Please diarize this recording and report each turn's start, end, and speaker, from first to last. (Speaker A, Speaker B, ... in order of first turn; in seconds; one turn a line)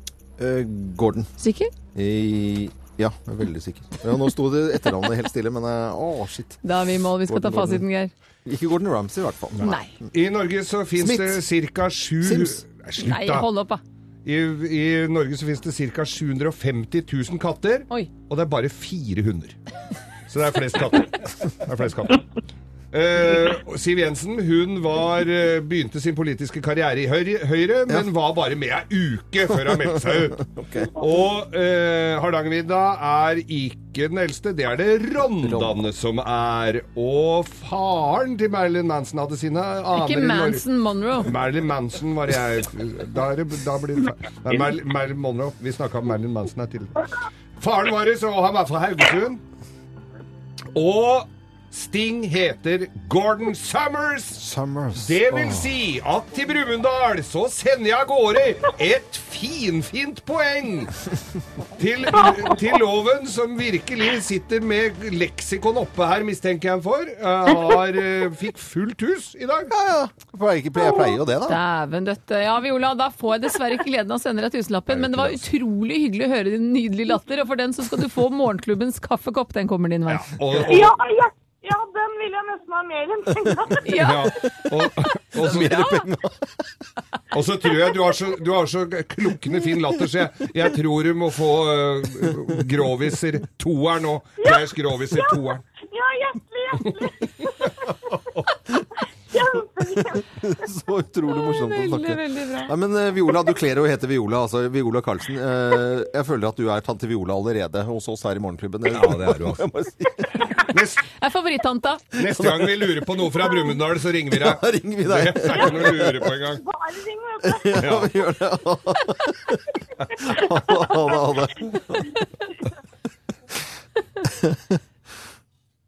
Speaker A: 0.4-1.3
Speaker B: 1.4-1.7
Speaker A: 1.9-6.6
Speaker B: 6.6-8.1
Speaker A: 7.3-7.8
Speaker A: 8.4-10.1
Speaker B: 9.6-9.9
Speaker C: 10.1-13.5
Speaker A: 11.0-11.4
Speaker A: 12.2-12.6
Speaker B: 13.0-13.8
Speaker C: 14.2-19.6
Speaker C: 20.3-22.2
Speaker C: 22.9-40.6
Speaker A: 29.7-30.9
Speaker A: 35.4-35.8
Speaker B: 39.9-41.3
Speaker C: 41.2-47.1
Speaker C: 47.6-49.4
Speaker C: 50.7-54.4
Speaker A: 54.4-55.7
Speaker C: 55.0-60.9
Speaker C: 61.8-69.7
Speaker A: 69.7-71.6
Speaker B: 71.5-80.3
Speaker C: 75.0-75.3
Speaker C: 80.1-80.9
Speaker D: 80.6-84.0
Speaker B: 83.8-84.3
Speaker C: 83.9-85.9
Speaker A: 85.3-86.4
Speaker C: 87.3-95.6
Speaker D: 94.4-98.2
Speaker D: 99.3-100.2
Speaker A: 100.4-110.5
Speaker B: 101.3-102.7
Speaker C: 108.9-109.6
Speaker C: 110.7-111.0
Speaker B: 111.2-112.0
Speaker C: 112.2-116.6
Speaker A: 112.3-112.8
Speaker A: 114.3-116.2
Speaker D: 115.5-117.9
Speaker A: 117.5-119.6
Speaker C: 117.7-118.1
Speaker D: 120.2-120.9
Speaker A: 120.2-122.1
Speaker A: 124.2-124.8